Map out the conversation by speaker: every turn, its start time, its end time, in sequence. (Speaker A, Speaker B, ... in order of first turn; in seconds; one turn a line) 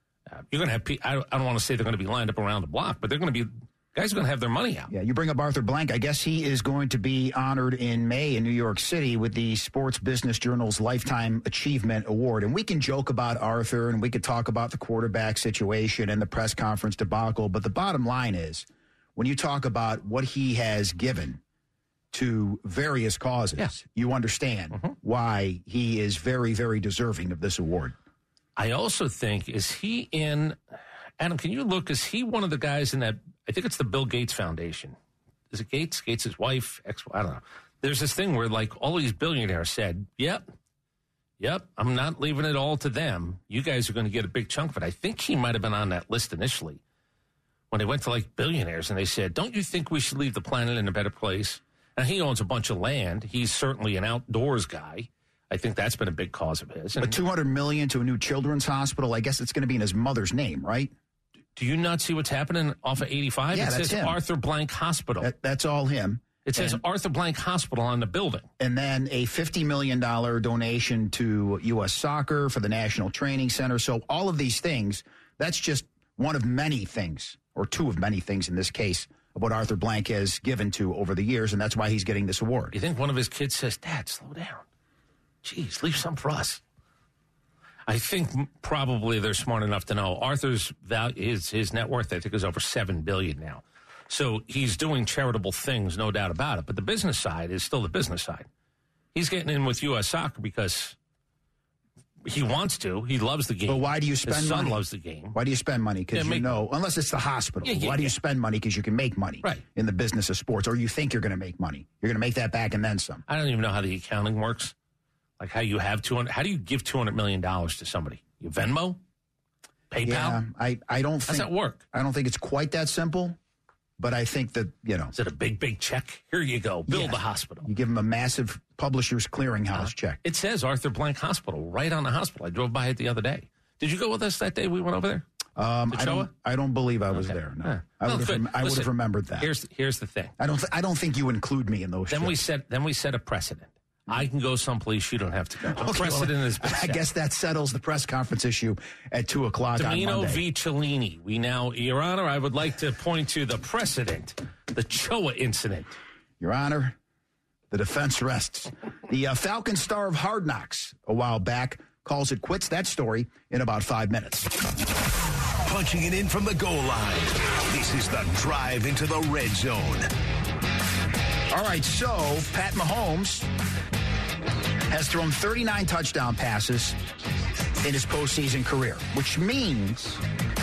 Speaker A: 0.3-4.9
Speaker B: 4.9-21.4
Speaker B: 22.1-27.9
Speaker A: 28.6-30.6
Speaker A: 31.2-35.0
Speaker A: 35.5-40.5
Speaker A: 41.4-46.8
Speaker A: 47.7-57.2
Speaker B: 57.0-60.9
Speaker A: 61.6-65.3
Speaker B: 63.5-64.2
Speaker B: 65.2-66.8
Speaker A: 66.5-68.5
Speaker B: 68.6-82.8
Speaker A: 82.7-84.6
Speaker A: 85.4-86.6
Speaker A: 87.9-98.5
Speaker A: 99.2-101.0
Speaker A: 102.2-105.4
Speaker B: 103.7-104.8
Speaker B: 105.3-113.2
Speaker A: 106.1-106.5
Speaker A: 107.6-108.2
Speaker A: 113.3-114.7
Speaker A: 115.4-119.0
Speaker A: 119.9-120.4
Speaker B: 120.0-123.4
Speaker A: 121.3-121.8
Speaker B: 124.0-125.1
Speaker A: 125.1-127.7
Speaker B: 126.9-130.2
Speaker A: 129.7-135.2
Speaker B: 135.6-139.5
Speaker A: 135.9-136.3
Speaker A: 137.1-140.3
Speaker B: 140.4-142.4
Speaker A: 142.1-147.1
Speaker B: 145.6-150.4
Speaker A: 149.8-156.0
Speaker B: 156.4-157.0
Speaker B: 157.7-164.6
Speaker C: 165.7-170.1
Speaker B: 171.5-173.5
Speaker B: 174.9-177.0
Speaker B: 177.8-180.2